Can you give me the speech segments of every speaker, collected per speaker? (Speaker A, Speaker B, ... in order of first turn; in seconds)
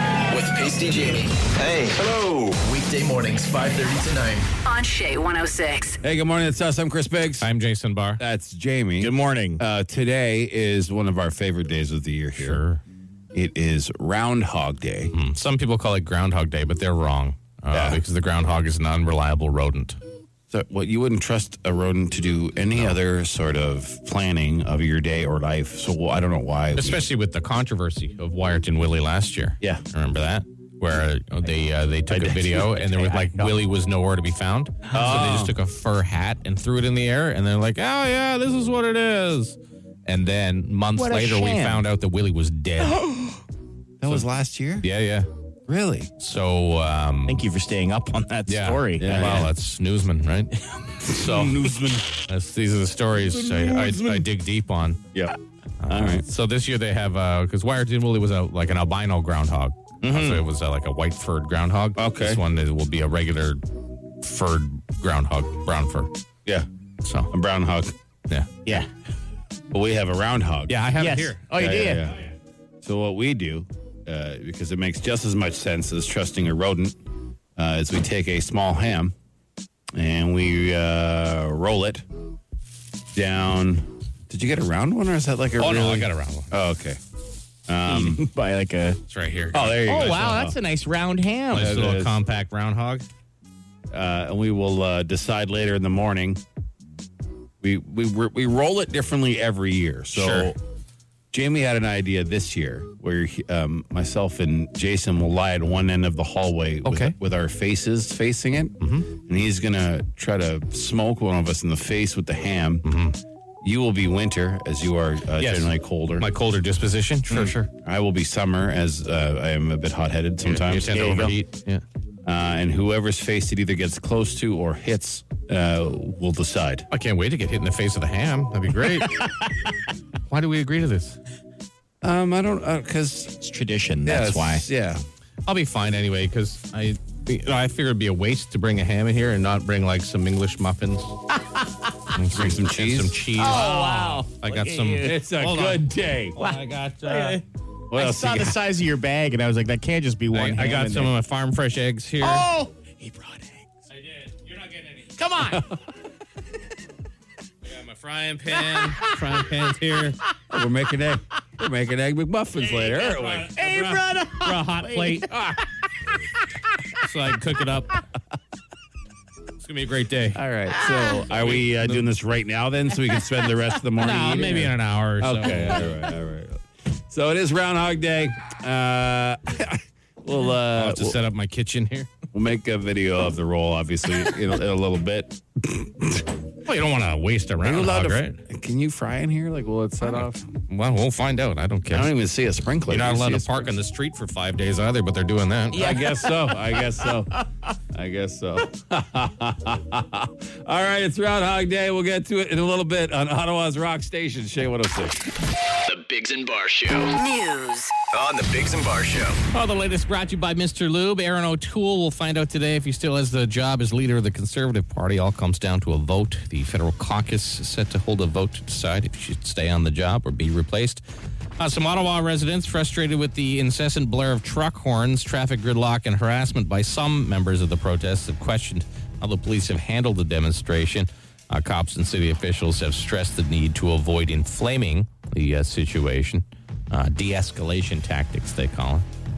Speaker A: 0.3-4.5, 205.9-207.2, 208.1-209.4
Speaker B: 4.7-6.0, 207.2-207.9
Speaker C: 6.0-7.5, 8.2-12.6, 13.3-15.1, 17.7-18.0, 20.5-27.1, 32.1-33.5, 34.9-35.5, 44.0-44.9, 45.7-46.1, 49.0-49.5, 51.1-52.2, 53.3-54.3, 55.9-56.3, 62.0-62.4, 67.3-67.9, 69.7-70.8, 71.5-72.3, 72.8-77.0, 77.6-79.1, 79.9-82.0, 83.1-87.0, 87.7-88.2, 89.5-90.5, 91.5-92.2, 93.9-96.4, 97.6-100.6, 101.3-112.9, 113.6-116.3, 117.3-121.4, 122.3-126.9, 132.0-133.4, 134.1-135.0, 142.3-143.2, 145.0-146.4, 147.9-148.6, 160.5-163.5, 165.3-165.6, 170.3-181.2, 182.3-186.4, 187.6-190.5, 191.9-193.7, 195.7-197.3, 197.9-205.2
Speaker D: 7.4-8.2, 12.4-12.8, 15.1-20.0, 26.8-43.0, 44.8-45.3, 46.2-47.4, 48.5-51.6, 52.3-55.0, 55.8-63.6, 64.2-66.1, 67.0-67.3, 68.3-68.6, 70.7-71.4, 85.6-86.5, 89.1-90.5, 91.5-93.1, 100.1-100.5, 106.8-107.2, 108.8-109.1, 112.8-113.2, 115.4-117.7, 120.5-121.8, 126.9-129.4, 130.3-131.2, 135.5-141.2, 142.1-147.4, 150.3-152.5, 153.9-155.2, 157.7-160.2, 162.6-165.4, 167.0-168.0, 169.6-170.4, 171.3-172.1, 174.0-175.9, 180.7-182.1, 186.7-188.4, 190.1-192.1, 192.9-196.0, 209.5-221.0, 221.6-239.1
Speaker E: 9.0-9.6, 41.0-41.8, 42.9-43.4, 47.3-49.4, 60.0-60.4, 71.0-72.1, 87.9-89.0, 89.8-91.8, 133.4-134.7, 143.4-145.2, 146.4-147.4, 147.9-151.1, 152.2-153.7, 155.2-155.6, 158.7-159.1, 163.5-165.3